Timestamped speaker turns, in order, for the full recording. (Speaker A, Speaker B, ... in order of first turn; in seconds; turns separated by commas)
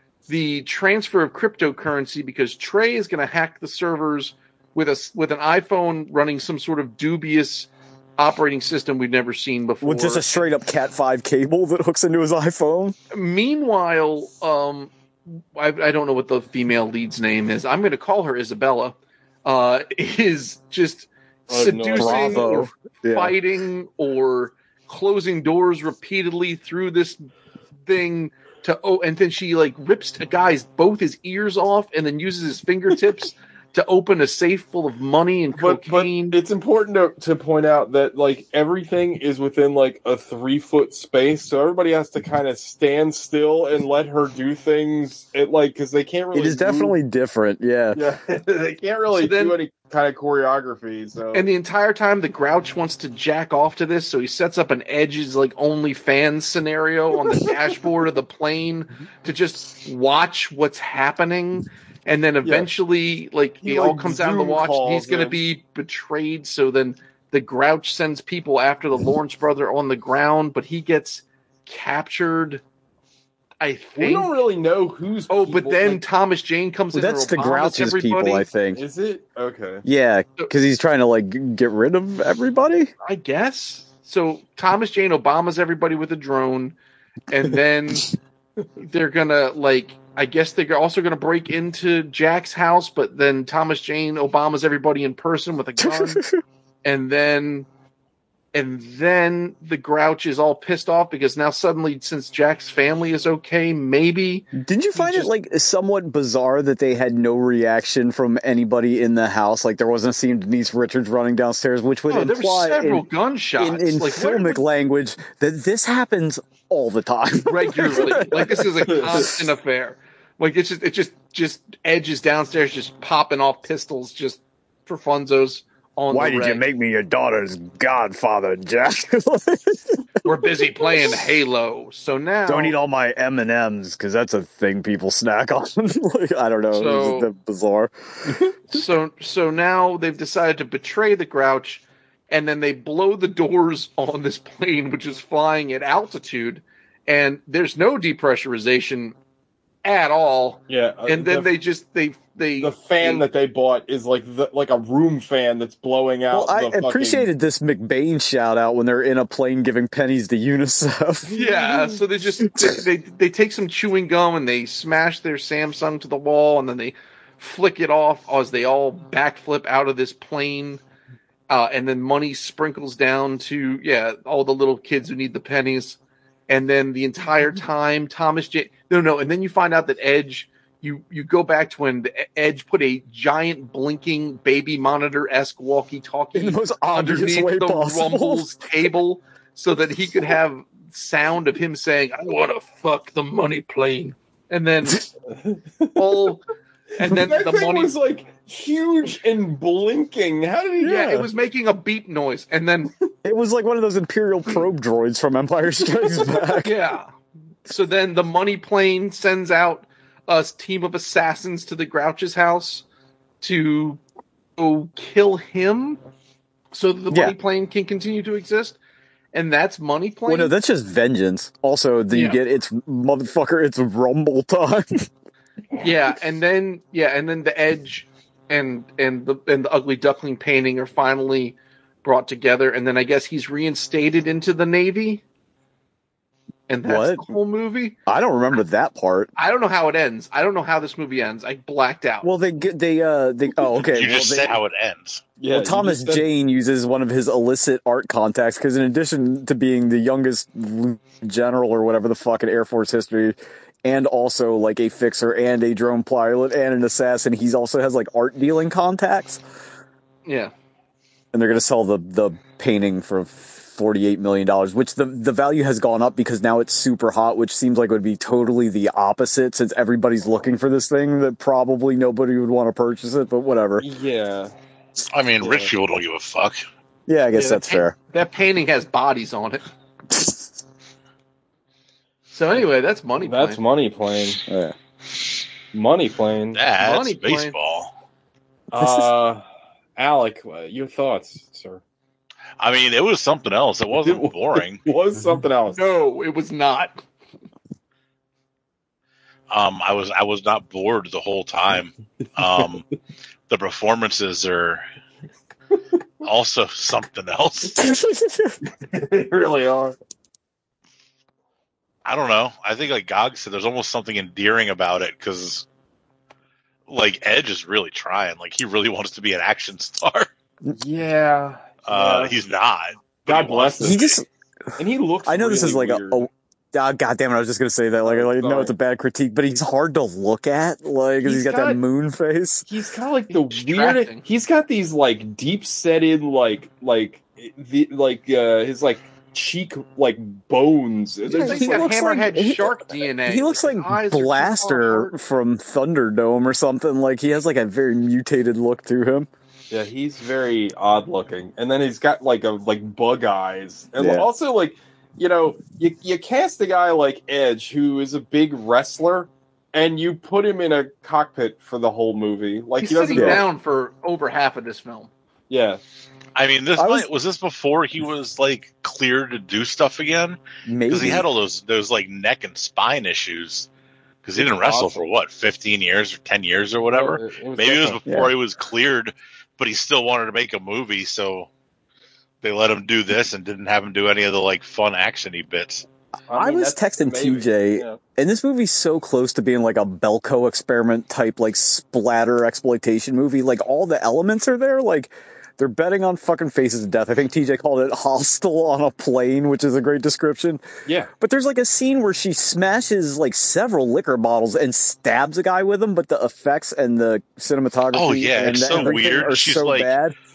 Speaker A: 0.3-10.4, Speaker B: 9.8-12.9, Speaker A: 13.1-27.3, Speaker C: 21.5-22.5, Speaker B: 21.9-23.4, Speaker A: 27.8-36.4, Speaker C: 35.5-47.0, Speaker B: 46.3-48.0, Speaker C: 47.9-51.5, Speaker A: 49.1-49.6, Speaker A: 51.3-72.6, Speaker C: 62.4-62.7, Speaker C: 63.6-65.4, Speaker A: 73.6-74.3, Speaker C: 74.0-76.0, Speaker A: 75.3-78.5, Speaker B: 76.9-78.8, Speaker C: 78.7-79.8, Speaker B: 79.8-82.9, Speaker A: 83.0-86.8, Speaker A: 87.3-88.1, Speaker A: 88.8-96.2, Speaker B: 95.8-96.4, Speaker A: 96.8-97.7, Speaker A: 98.5-105.3, Speaker B: 104.5-113.0, Speaker A: 112.1-114.6, Speaker B: 113.6-119.3, Speaker A: 117.4-126.6, Speaker C: 118.8-119.3, Speaker B: 126.1-131.2, Speaker A: 130.2-132.7, Speaker B: 132.4-138.4, Speaker A: 136.7-137.3, Speaker A: 138.7-149.2, Speaker A: 149.8-153.2, Speaker C: 150.7-151.5, Speaker C: 152.6-157.3, Speaker B: 156.3-161.4, Speaker A: 161.3-170.8, Speaker C: 161.5-161.8, Speaker A: 171.5-195.1, Speaker B: 186.3-188.5, Speaker C: 195.3-196.3, Speaker A: 195.9-196.4, Speaker A: 197.0-197.9, Speaker C: 197.0-201.0, Speaker B: 200.8-201.3, Speaker A: 200.8-202.9, Speaker B: 203.2-206.7, Speaker A: 206.3-207.1, Speaker A: 207.7-212.8, Speaker A: 213.4-214.0, Speaker A: 214.6-216.0, Speaker A: 216.7-218.8, Speaker B: 217.1-217.3, Speaker A: 219.3-220.5, Speaker B: 220.3-225.1, Speaker A: 222.1-222.4, Speaker A: 225.8-235.2, Speaker A: 236.7-238.0, Speaker B: 236.8-237.3, Speaker B: 238.1-239.3, Speaker A: 239.3-242.3, Speaker B: 242.2-244.6, Speaker D: 243.8-245.2, Speaker C: 245.4-246.2, Speaker B: 245.5-259.4, Speaker A: 260.2-260.5, Speaker B: 261.3-273.9, Speaker C: 273.8-274.5, Speaker D: 275.1-276.6, Speaker C: 275.4-275.7, Speaker B: 277.1-277.9, Speaker A: 277.3-279.6, Speaker A: 282.3-283.6, Speaker C: 283.2-284.4, Speaker B: 284.5-284.7, Speaker C: 285.7-286.6, Speaker D: 286.5-287.9, Speaker A: 286.8-287.5, Speaker C: 288.7-289.4, Speaker C: 290.0-291.8, Speaker D: 292.6-294.8, Speaker C: 294.0-295.8, Speaker A: 295.7-297.0, Speaker D: 299.5-302.9, Speaker D: 303.5-304.8, Speaker D: 306.2-307.9, Speaker B: 307.9-308.5, Speaker C: 308.8-309.9, Speaker D: 312.0-315.6, Speaker D: 316.9-320.3, Speaker C: 320.6-322.4, Speaker D: 321.9-324.2, Speaker C: 323.3-324.0, Speaker B: 323.8-324.2, Speaker C: 324.8-326.3, Speaker B: 325.2-332.6, Speaker C: 328.0-328.7, Speaker C: 331.2-331.8, Speaker C: 332.7-342.0, Speaker A: 333.3-334.2, Speaker A: 341.3-345.1, Speaker B: 341.3-349.3, Speaker C: 349.7-363.4, Speaker B: 354.0-354.3, Speaker A: 362.8-365.1, Speaker B: 363.1-363.4, Speaker C: 365.5-365.8, Speaker D: 366.4-373.7, Speaker B: 366.8-367.1, Speaker B: 370.6-371.2, Speaker D: 374.2-381.5, Speaker C: 374.4-375.0, Speaker C: 376.9-378.0, Speaker D: 382.4-385.8, Speaker C: 386.3-388.0, Speaker B: 386.3-400.6, Speaker B: 401.2-410.1, Speaker D: 407.9-409.9, Speaker C: 408.7-409.0